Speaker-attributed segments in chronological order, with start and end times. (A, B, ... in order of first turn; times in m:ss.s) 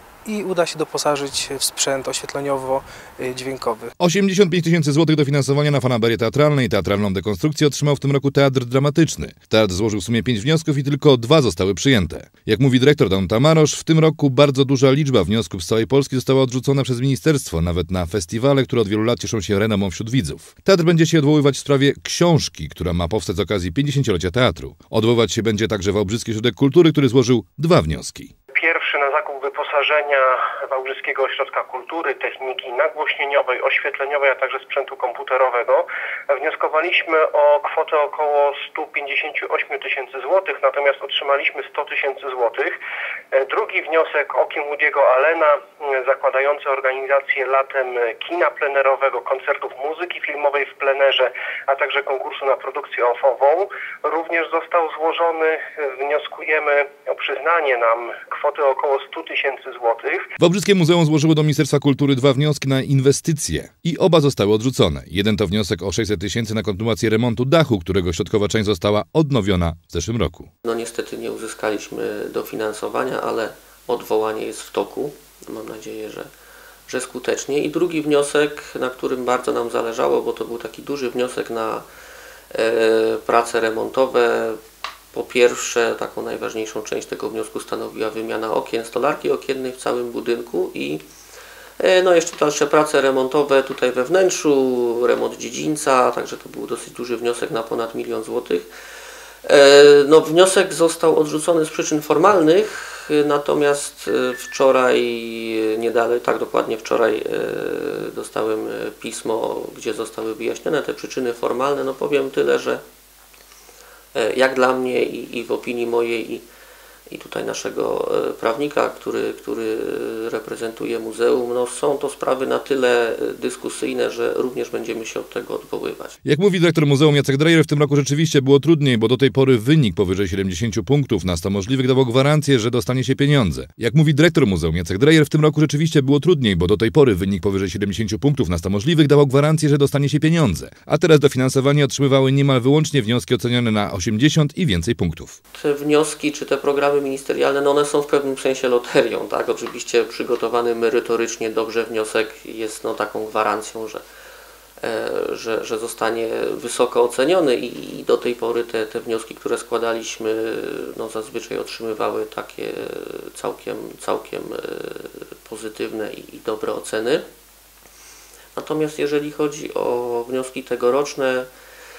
0:00.2-0:03.9 A
0:04.0-0:28.3 B
0:28.5-0:42.7 C
0:43.3-1:00.3 C
1:00.4-1:10.5 B
1:10.6-1:16.3 D
1:16.9-1:21.8 D
1:22.5-1:24.6 D
1:25.1-1:31.0 D
1:31.8-1:38.7 D
1:39.4-1:52.8 D
1:54.1-1:56.4 D
1:57.1-2:06.2 D
2:06.2-2:25.4 B
2:25.5-2:34.0 D
2:34.8-2:47.2 D
2:48.5-2:51.5 D